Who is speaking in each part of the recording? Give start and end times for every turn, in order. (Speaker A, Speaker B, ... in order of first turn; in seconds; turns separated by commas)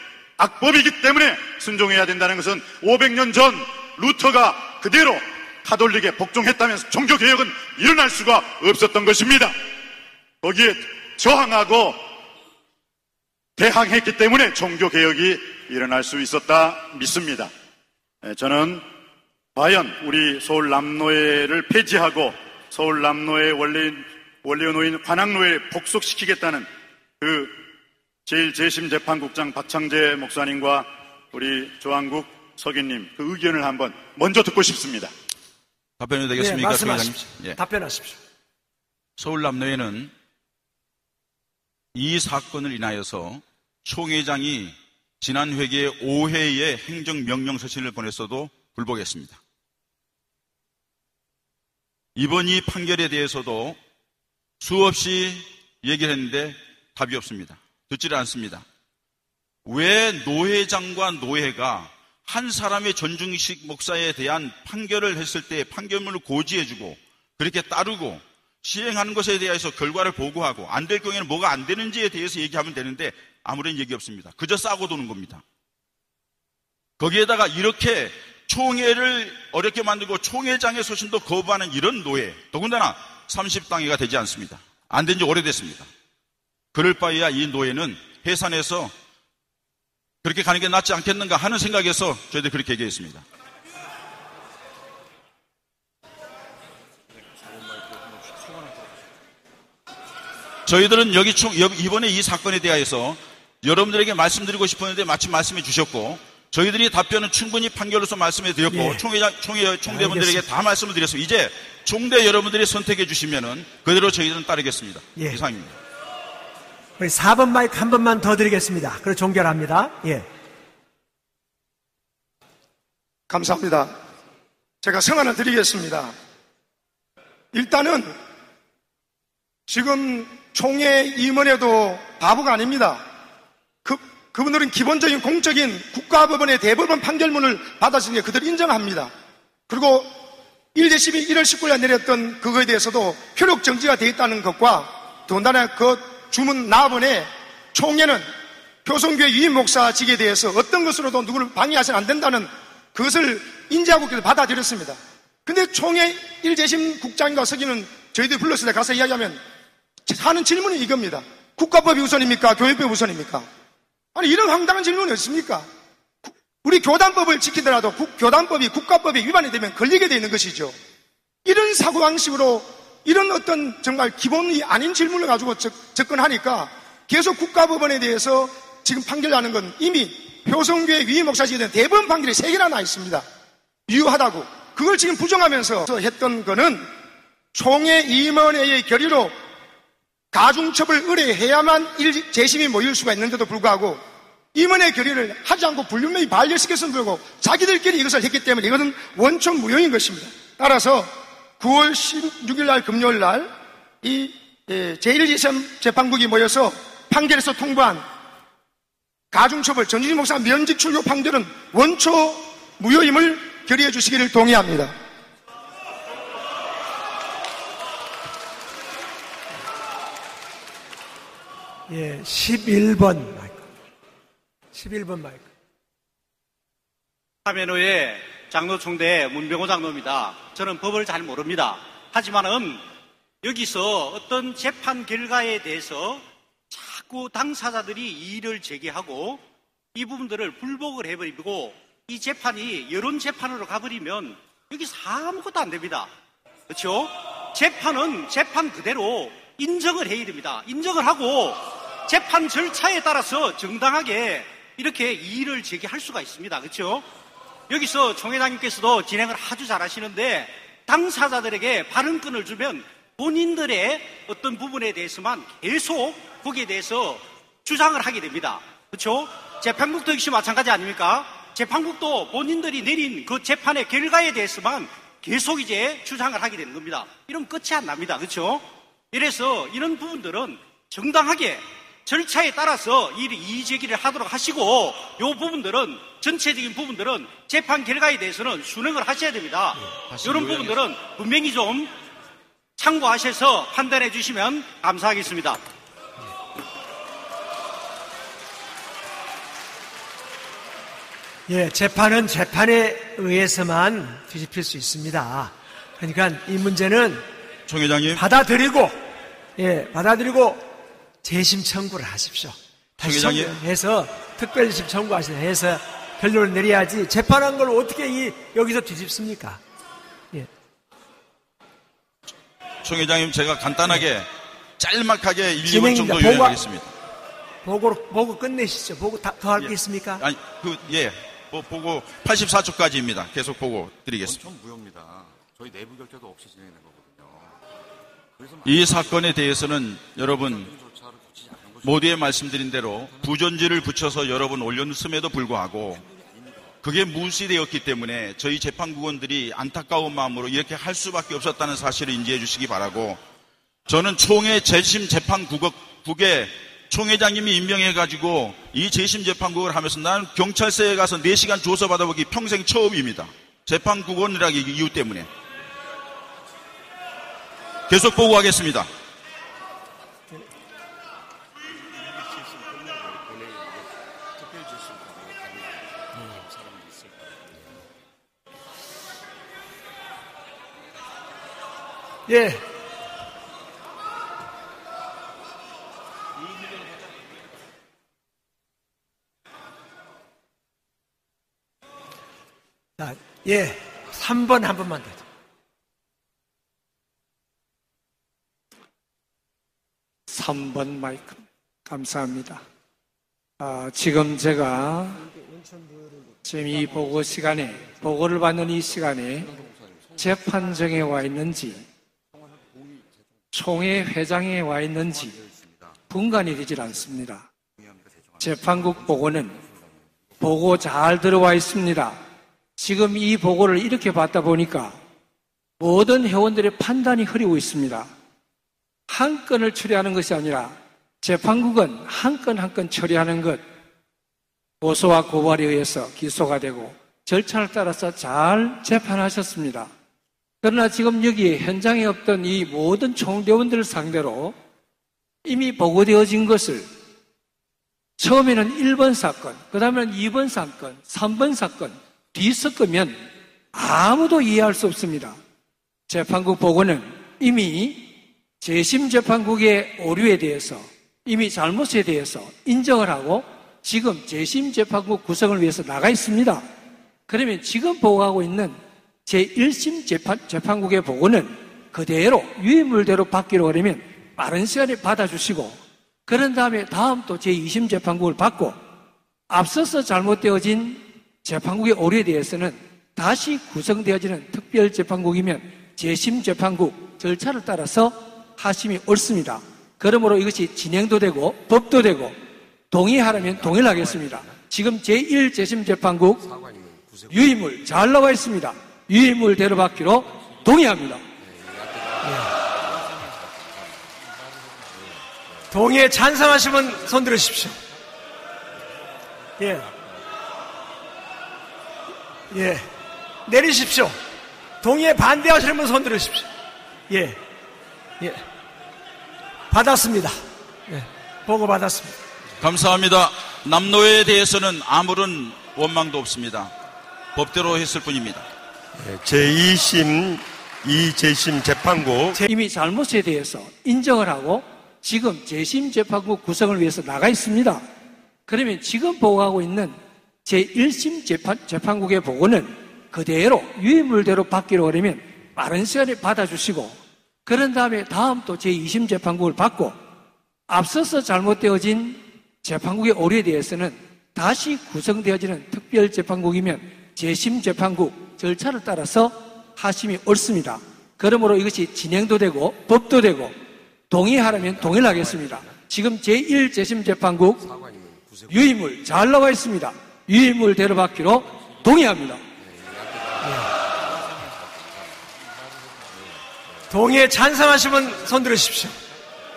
Speaker A: 0.4-9.5, Speaker A: 10.4-12.0, Speaker A: 13.6-17.5, Speaker A: 18.2-18.8, Speaker A: 19.5-26.7, Speaker A: 27.2-27.6, Speaker A: 28.2-35.1, Speaker B: 36.0-37.6, Speaker C: 36.4-38.2, Speaker B: 39.2-40.1, Speaker B: 41.9-49.4, Speaker B: 52.1-53.8, Speaker B: 54.6-58.6, Speaker B: 59.6-75.4, Speaker B: 77.0-85.9, Speaker B: 86.7-88.9, Speaker B: 90.2-93.2, Speaker D: 97.3-99.0, Speaker B: 100.7-115.8, Speaker C: 108.7-109.0, Speaker C: 109.9-110.4, Speaker C: 117.0-120.2, Speaker E: 123.3-123.9, Speaker E: 124.8-126.1, Speaker E: 127.5-128.1, Speaker E: 129.7-133.0, Speaker E: 133.8-139.1, Speaker E: 139.7-140.1, Speaker E: 140.8-148.2, Speaker E: 148.8-159.4, Speaker E: 160.1-163.5, Speaker E: 164.1-165.7, Speaker E: 166.2-170.8, Speaker E: 171.4-183.2, Speaker E: 183.9-186.9, Speaker E: 187.5-189.3, Speaker E: 190.3-194.0, Speaker E: 194.5-203.5, Speaker E: 204.0-208.0, Speaker E: 209.3-214.9, Speaker C: 221.9-223.7, Speaker C: 224.7-225.5, Speaker F: 227.4-232.8, Speaker F: 233.4-239.4, Speaker F: 239.9-246.1, Speaker F: 246.7-257.0, Speaker F: 257.7-291.9, Speaker B: 290.1-290.8, Speaker F: 292.8-295.6, Speaker C: 301.5-307.2, Speaker B: 307.7-308.2, Speaker C: 308.1-309.0, Speaker C: 309.6-310.7, Speaker C: 311.2-319.6, Speaker B: 313.0-313.5, Speaker B: 322.8-324.3, Speaker B: 324.8-326.9, Speaker C: 325.7-326.6, Speaker C: 327.6-330.2, Speaker B: 329.6-334.4, Speaker D: 334.2-337.6, Speaker D: 338.4-339.6, Speaker B: 338.6-340.7, Speaker D: 340.1-344.2, Speaker B: 341.8-346.0, Speaker D: 345.9-346.8, Speaker B: 346.8-353.2, Speaker B: 353.9-365.3, Speaker B: 367.9-368.9, Speaker D: 371.9-377.9, Speaker C: 382.3-382.6, Speaker C: 393.0-395.2, Speaker G: 400.3-402.6, Speaker G: 403.6-405.3, Speaker C: 405.4-406.0, Speaker G: 406.4-409.5, Speaker D: 406.8-408.0, Speaker D: 408.6-411.7, Speaker G: 410.2-411.8, Speaker D: 412.3-414.3, Speaker G: 413.5-415.3, Speaker D: 415.0-416.0, Speaker G: 416.1-417.5, Speaker D: 416.5-417.1, Speaker D: 417.8-420.9, Speaker G: 418.4-419.6, Speaker G: 420.4-422.2, Speaker G: 422.8-425.0, Speaker G: 425.8-428.1, Speaker G: 429.1-433.6, Speaker G: 434.8-439.9, Speaker G: 440.6-444.5, Speaker G: 445.4-446.9, Speaker G: 448.2-455.4, Speaker G: 456.1-466.6, Speaker G: 467.3-478.8, Speaker G: 479.5-492.4, Speaker G: 492.9-496.4, Speaker D: 493.3-494.6, Speaker D: 496.4-498.1, Speaker G: 497.3-501.2, Speaker D: 501.4-505.8, Speaker C: 502.2-502.6, Speaker C: 505.7-507.8, Speaker C: 509.6-509.9, Speaker D: 509.6-510.3, Speaker C: 512.5-512.9, Speaker C: 513.5-514.1, Speaker C: 514.8-516.5, Speaker C: 517.1-517.4, Speaker C: 519.7-522.2, Speaker B: 522.6-526.7, Speaker B: 527.3-528.5, Speaker H: 529.0-532.4, Speaker G: 532.4-537.8, Speaker G: 538.5-550.0, Speaker G: 550.7-563.6, Speaker G: 564.1-567.6, Speaker D: 564.4-565.8, Speaker D: 567.6-569.1, Speaker G: 568.5-572.4, Speaker D: 571.5-577.0, Speaker C: 573.4-573.7, Speaker C: 576.9-579.0